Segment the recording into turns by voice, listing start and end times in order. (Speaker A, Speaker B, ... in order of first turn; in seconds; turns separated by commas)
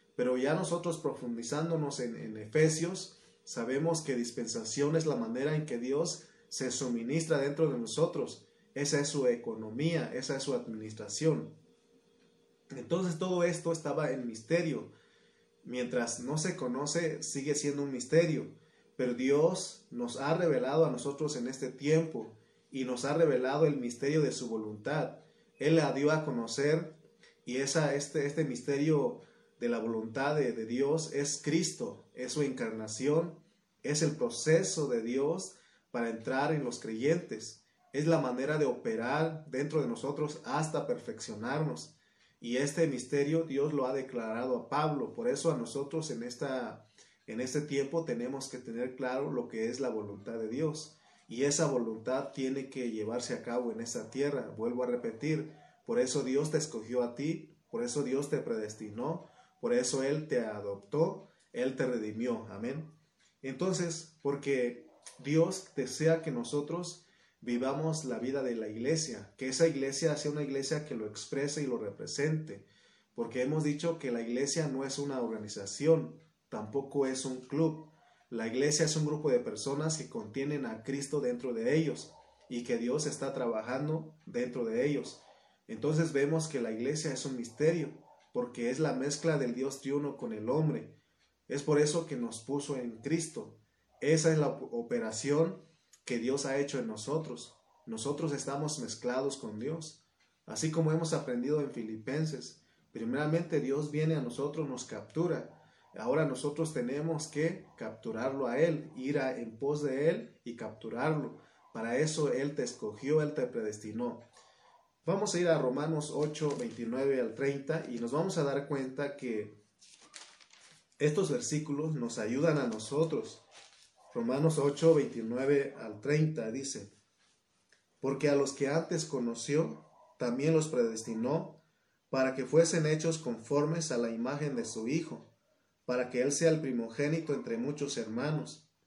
Speaker A: 0.2-11.6, Speaker A: 12.7-14.9, Speaker A: 15.6-62.9, Speaker A: 63.4-91.0, Speaker A: 91.5-114.2, Speaker A: 115.0-119.5, Speaker A: 121.0-123.4, Speaker A: 124.1-126.9, Speaker A: 128.0-135.3, Speaker A: 135.9-138.7